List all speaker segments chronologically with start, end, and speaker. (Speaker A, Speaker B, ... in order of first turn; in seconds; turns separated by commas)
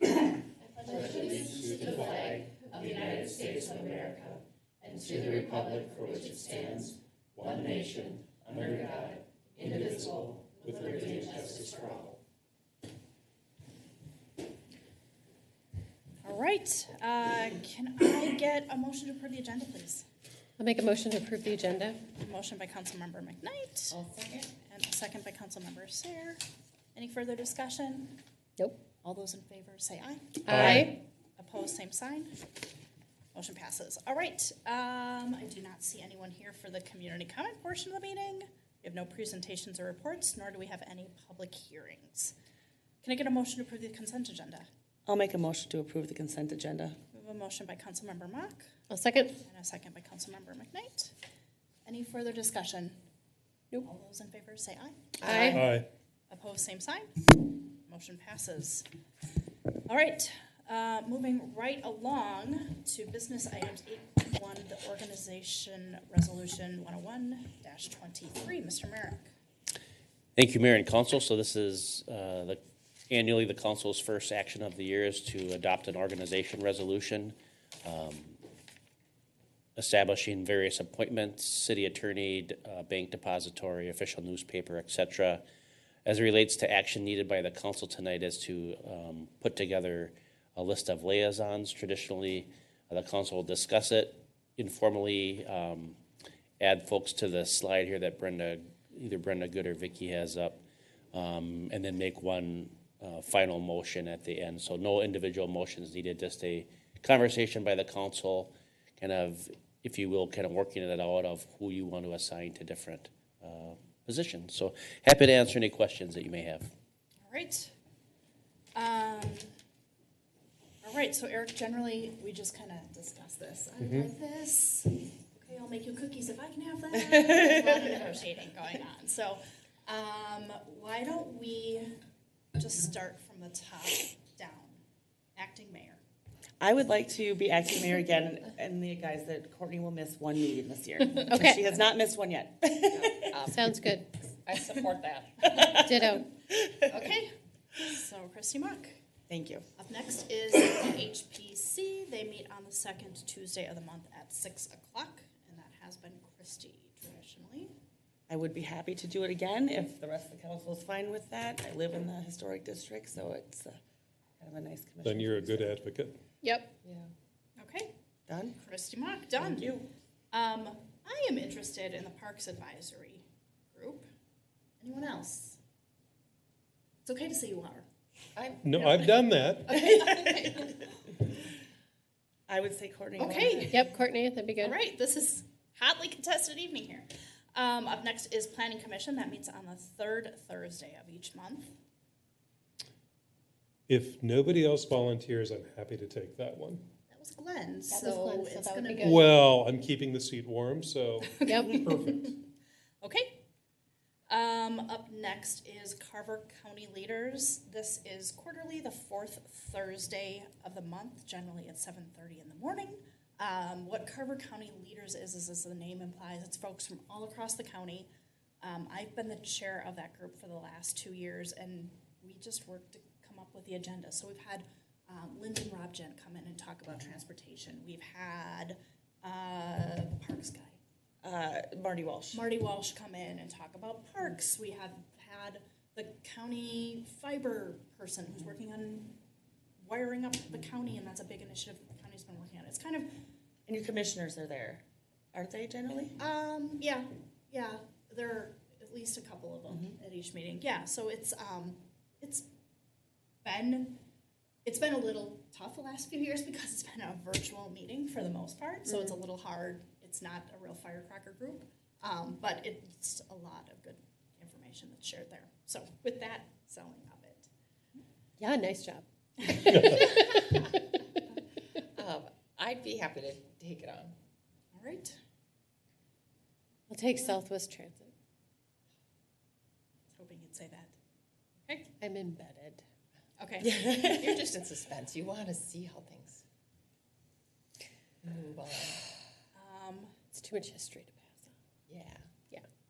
Speaker A: 0.6-1.8, Speaker B: 0.9-12.1, Speaker C: 1.5-1.8, Speaker D: 5.3-5.9, Speaker E: 10.6-11.8, Speaker A: 16.2-20.0, Speaker C: 20.6-22.0, Speaker A: 22.1-24.0, Speaker B: 23.9-24.5, Speaker A: 24.6-26.4, Speaker A: 26.9-28.2, Speaker A: 29.0-32.3, Speaker C: 30.4-30.9, Speaker E: 30.5-30.9, Speaker A: 33.3-42.3, Speaker A: 43.0-44.7, Speaker F: 45.0-47.0, Speaker A: 47.1-48.7, Speaker C: 48.9-49.4, Speaker A: 49.4-51.1, Speaker A: 51.9-53.0, Speaker A: 53.8-55.7, Speaker B: 55.2-55.6, Speaker C: 55.2-55.6, Speaker E: 55.5-55.9, Speaker A: 56.3-58.9, Speaker A: 59.9-69.3, Speaker D: 70.3-78.4, Speaker D: 79.8-85.4, Speaker D: 86.0-96.0, Speaker D: 96.6-100.6, Speaker D: 101.1-116.7, Speaker A: 117.2-117.7, Speaker A: 118.7-119.5, Speaker A: 120.8-131.9, Speaker E: 123.8-124.1, Speaker A: 132.6-134.8, Speaker A: 135.3-136.0, Speaker F: 136.6-143.3, Speaker C: 141.1-141.8, Speaker B: 142.8-143.6, Speaker C: 143.5-144.2, Speaker B: 144.4-145.9, Speaker C: 145.8-146.3, Speaker A: 146.9-149.0, Speaker F: 149.3-149.6, Speaker A: 149.8-157.7, Speaker F: 158.3-163.8, Speaker F: 164.4-165.7, Speaker E: 165.0-166.2, Speaker C: 166.4-166.7, Speaker B: 166.8-167.1, Speaker A: 167.6-167.9, Speaker F: 168.3-168.6, Speaker A: 168.6-174.1, Speaker F: 169.4-169.9, Speaker A: 174.8-175.6, Speaker A: 177.0-177.8, Speaker B: 178.3-179.1, Speaker E: 178.6-179.8, Speaker A: 179.7-180.9, Speaker F: 182.5-183.8, Speaker A: 183.2-183.9, Speaker C: 183.7-184.8, Speaker A: 184.6-191.7, Speaker E: 193.9-196.8, Speaker A: 197.1-199.2, Speaker C: 197.9-199.3, Speaker E: 199.0-202.3, Speaker A: 201.4-202.4, Speaker C: 201.4-201.8, Speaker A: 203.0-203.4, Speaker A: 204.3-218.1, Speaker A: 218.6-230.8, Speaker F: 231.2-232.4, Speaker A: 232.3-239.2, Speaker A: 239.8-243.2, Speaker F: 243.7-246.2, Speaker A: 246.2-252.5, Speaker F: 249.7-249.9, Speaker A: 253.4-254.0, Speaker A: 254.6-267.5, Speaker C: 268.4-270.9, Speaker B: 271.9-274.1, Speaker A: 274.7-275.2, Speaker C: 276.9-278.1, Speaker A: 280.1-280.9, Speaker C: 282.0-282.8, Speaker A: 283.4-284.6, Speaker B: 283.6-286.4, Speaker B: 288.2-289.0, Speaker A: 289.5-290.1, Speaker C: 290.3-291.5, Speaker B: 291.9-292.3